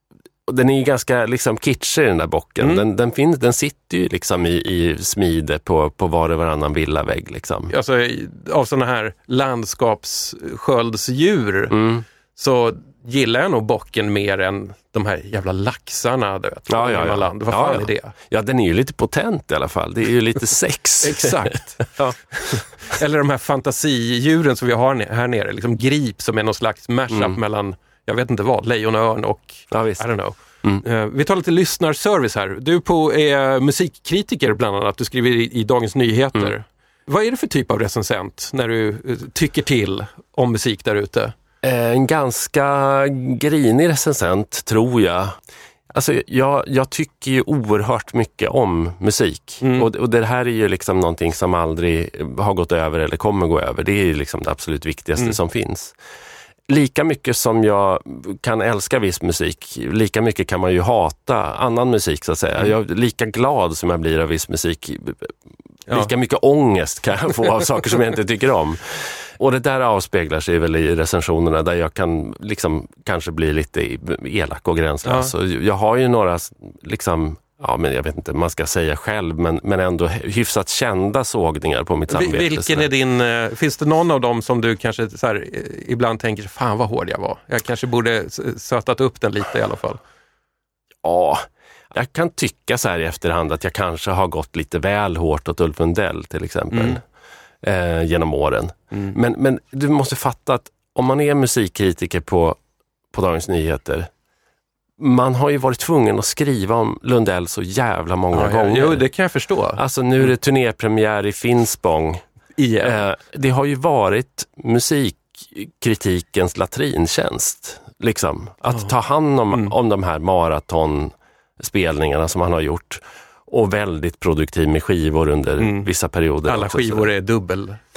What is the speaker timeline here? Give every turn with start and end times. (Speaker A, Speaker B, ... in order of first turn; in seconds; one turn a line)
Speaker A: 0.5-7.7
Speaker B: 7.7-11.8
Speaker A: 11.7-12.0
Speaker B: 12.3-18.1
Speaker A: 16.7-22.6
Speaker B: 21.0-21.8
Speaker B: 22.4-41.3
Speaker A: 27.1-27.4
Speaker A: 29.7-30.1
Speaker A: 41.6-45.4
Speaker A: 45.9-56.0
Speaker B: 49.6-49.9
Speaker A: 56.7-65.3
Speaker A: 65.9-82.9
Speaker B: 75.0-75.3
Speaker B: 82.1-90.0
Speaker A: 91.0-97.0
Speaker B: 96.7-97.0
Speaker A: 97.6-102.6
Speaker A: 103.1-104.1
Speaker A: 105.0-109.0
Speaker B: 108.3-109.8
Speaker A: 109.8-112.2
Speaker B: 112.6-113.0
Speaker A: 112.8-127.1
Speaker B: 125.6-125.9
Speaker B: 126.4-127.8